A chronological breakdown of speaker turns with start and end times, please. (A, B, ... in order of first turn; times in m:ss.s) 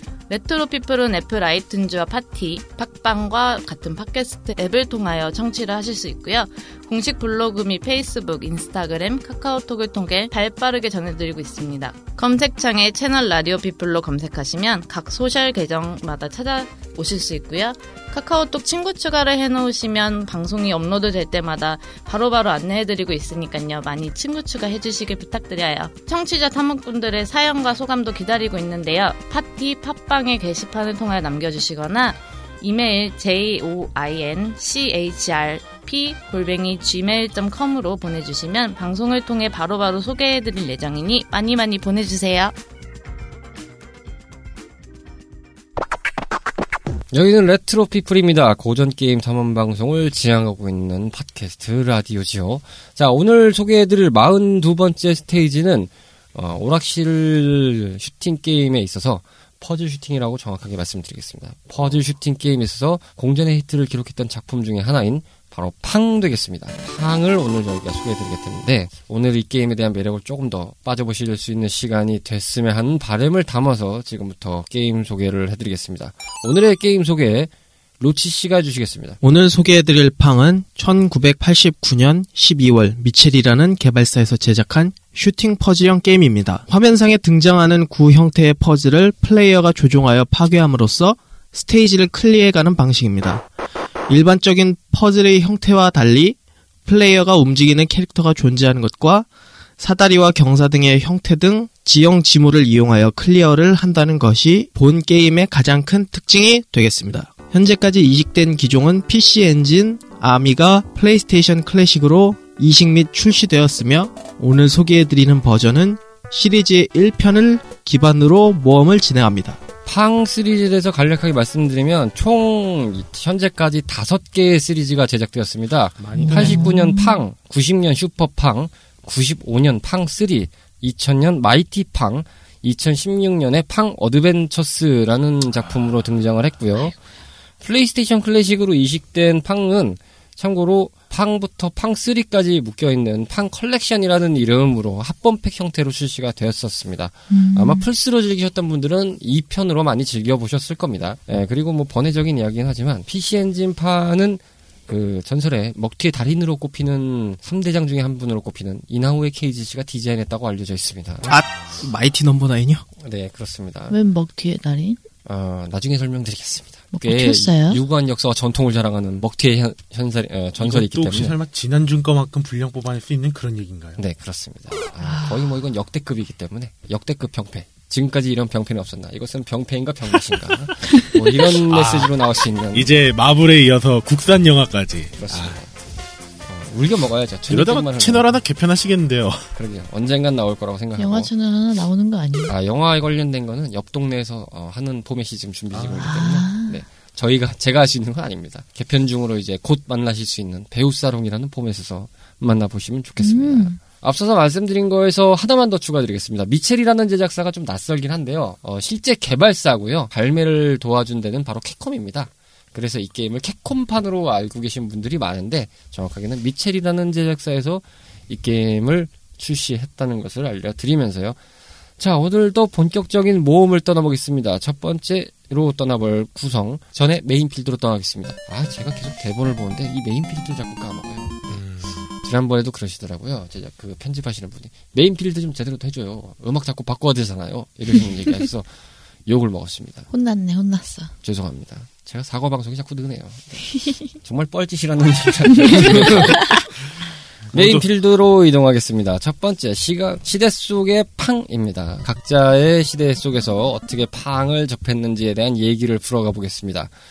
0:00.3-0:42.5 A
0:47.1-1:19.2 B
1:19.2-1:33.4 C
1:34.1-1:39.3 C
1:39.8-1:59.6 C
1:59.9-2:17.0 B
2:06.0-2:06.7 D
2:06.2-2:07.2 E
2:15.6-2:16.0 D
2:17.6-2:41.3 B
2:27.3-2:27.9 E
2:41.3-2:42.8 C
2:43.0-2:44.0 B
2:43.9-2:45.0 E
2:45.2-2:51.3 B
2:46.9-2:47.8 E
2:50.6-2:54.0 D
2:54.0-3:03.0 B
2:55.0-2:55.5 E
3:01.5-3:02.1 D
3:02.7-3:05.6 D
3:05.2-3:05.7 B
3:06.5-3:08.4 B
3:07.5-3:09.5 D
3:09.6-3:11.3 B
3:11.0-3:12.5 E
3:12.5-3:41.4 B
3:15.7-3:16.0 D
3:16.0-3:16.8 E
3:23.2-3:23.8 E
3:42.0-3:51.6 B
3:51.5-3:52.1 D
3:52.2-3:58.7 B
3:59.3-4:00.1 B
4:00.1-4:01.1 E
4:01.2-4:06.4 B
4:05.6-4:06.5 E
4:05.8-4:06.5 D
4:07.5-4:07.8 D
4:07.5-4:16.9 B